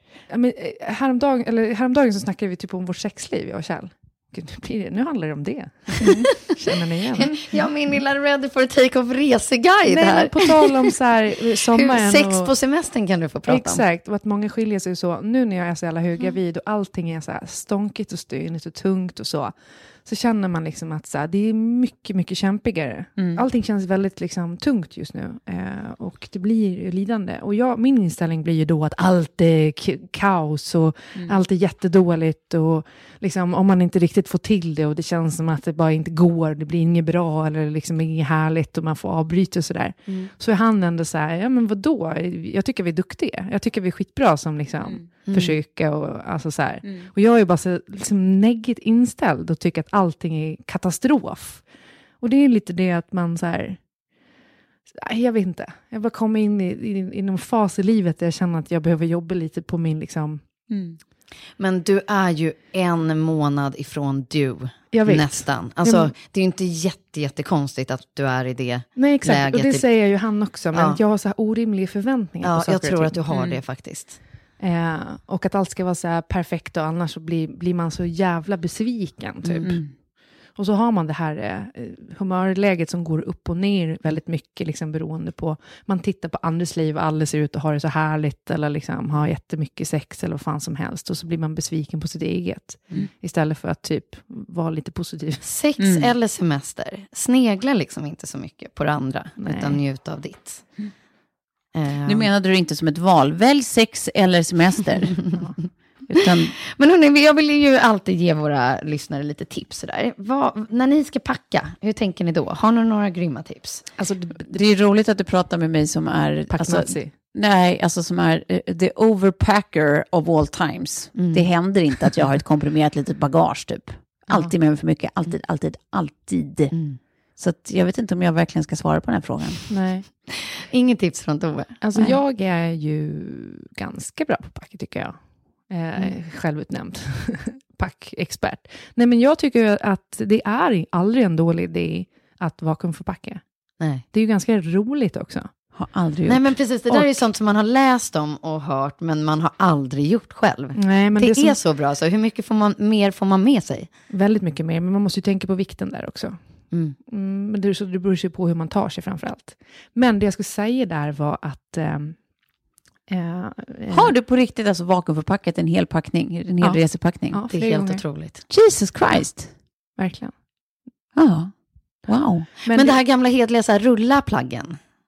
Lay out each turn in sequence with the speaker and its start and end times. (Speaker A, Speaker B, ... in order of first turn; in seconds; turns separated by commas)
Speaker A: 0.3-7.5, Speaker B: 6.0-6.4, Speaker C: 7.1-10.7, Speaker A: 9.9-12.5, Speaker C: 11.7-13.8, Speaker A: 13.5-51.7, Speaker B: 23.2-23.4, Speaker C: 45.3-45.6, Speaker A: 52.2-53.9, Speaker A: 54.9-60.4, Speaker B: 60.7-61.0, Speaker C: 61.6-70.1, Speaker A: 64.9-66.1, Speaker A: 69.0-73.2, Speaker C: 70.7-71.0, Speaker C: 72.4-74.2, Speaker B: 73.3-73.6, Speaker A: 74.6-95.4, Speaker C: 79.4-79.7, Speaker B: 79.6-79.9, Speaker C: 95.4-100.8, Speaker B: 95.8-96.1, Speaker A: 99.4-99.8, Speaker C: 101.7-102.3, Speaker B: 102.0-105.3, Speaker B: 106.1-106.5, Speaker C: 106.8-113.9, Speaker A: 114.0-114.5, Speaker B: 114.5-129.6, Speaker A: 116.5-117.1, Speaker C: 121.2-121.8, Speaker A: 124.3-124.5, Speaker A: 129.7-130.1, Speaker C: 130.5-131.8, Speaker A: 131.8-143.4, Speaker C: 143.8-144.1, Speaker A: 144.1-145.7, Speaker B: 145.7-147.0, Speaker C: 146.3-154.0, Speaker A: 150.8-151.6, Speaker A: 154.1-162.5, Speaker C: 156.7-157.0, Speaker A: 163.1-164.1, Speaker B: 163.9-167.4, Speaker A: 166.6-168.1, Speaker C: 167.5-168.4, Speaker B: 168.5-169.6, Speaker A: 169.9-170.3, Speaker B: 171.2-172.5, Speaker A: 172.7-173.0, Speaker C: 172.7-174.8